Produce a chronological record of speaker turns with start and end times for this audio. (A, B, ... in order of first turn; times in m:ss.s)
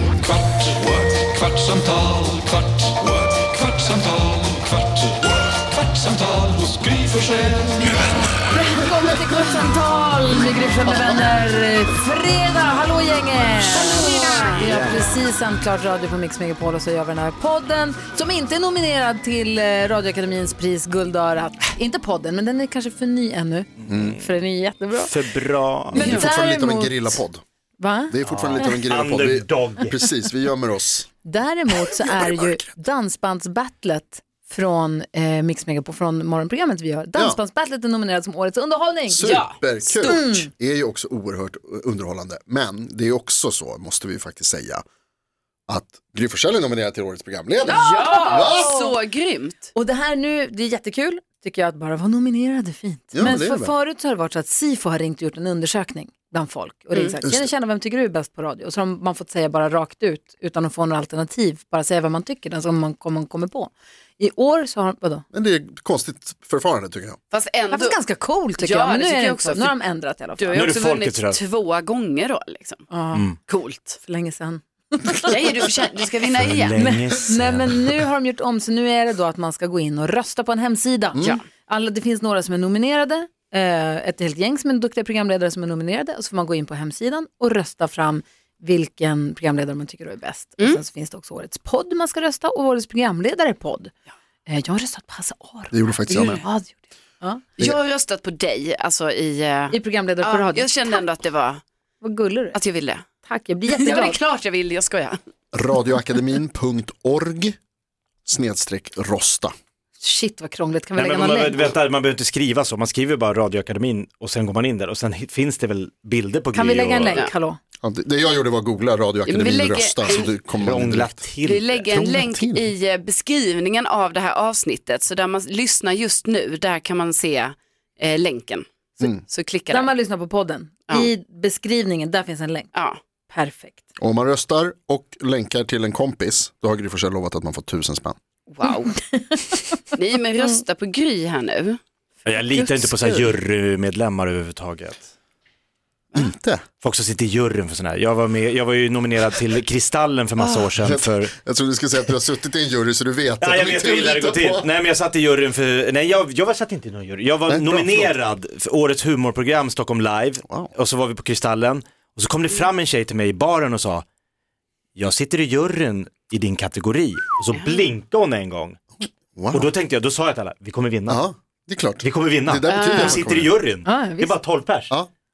0:00.2-0:05.0 A
0:05.5-0:08.4 A
0:07.9-0:25.2 B
0:13.8-0:14.7 C
0:14.4-0:15.1 D
0:23.9-0:24.2 E
0:24.9-0:26.2 D
0:25.9-0:27.2 B
0:26.0-0:26.3 C
0:26.0-0:27.4 E
0:27.8-0:28.7 B
0:28.1-0:31.1 E
0:28.2-0:30.0 D
0:31.2-0:39.3 B
0:31.7-0:32.7 E
0:39.1-0:44.8 E
0:39.2-0:39.6 C
0:39.8-0:40.5 B
0:45.7-0:48.8 E
0:47.6-0:48.9 B
0:47.7-0:49.7 C
0:49.8-1:05.3 B
0:53.1-0:53.7 E
0:57.2-0:57.5 E
1:05.3-1:07.2 E
1:07.3-1:08.0 C
1:07.7-1:10.6 B
1:08.6-1:09.8 C
1:10.4-1:12.9 C
1:10.5-1:11.4 D
1:12.9-1:13.3 B
1:13.5-1:13.9 C
1:13.8-1:15.6 B
1:15.3-1:16.9 C
1:16.3-1:18.0 D
1:16.8-1:33.9 B
1:34.5-1:37.4 B
1:35.7-1:36.4 E
1:36.1-1:36.4 C
1:37.6-1:41.6 C
1:39.7-1:41.0 B
1:42.0-1:42.6 B
1:42.5-1:43.0 C
1:43.2-1:44.2 B
1:43.7-1:45.2 C
1:45.5-1:47.6 E
1:48.3-1:49.5 E
1:50.0-1:51.8 B
1:51.0-1:57.3 D
1:56.5-1:57.6 B
1:57.8-2:01.2 E
1:59.3-2:00.4 C
2:00.5-2:01.9 D
2:01.4-2:09.9 C
2:01.9-2:02.7 E
2:09.7-2:12.7 B
2:12.7-2:13.0 C
2:13.3-2:13.8 B
2:14.0-2:18.2 E
2:18.5-2:18.9 C
2:19.0-2:19.8 B
2:20.0-2:23.3 C
2:22.2-2:25.1 D
2:26.2-2:26.6 E
2:26.8-2:31.3 D
2:30.4-2:30.7 C
2:30.8-2:34.7 E
2:33.4-2:44.0 D
2:37.5-2:38.1 E
2:40.4-2:40.7 E
2:45.0-2:48.8 D
2:47.5-2:47.8 C
2:49.4-2:49.7 E
2:49.5-2:51.3 D
2:51.1-2:53.5 E
2:52.0-2:54.9 D
2:52.7-2:53.2 C
2:53.8-2:54.4 B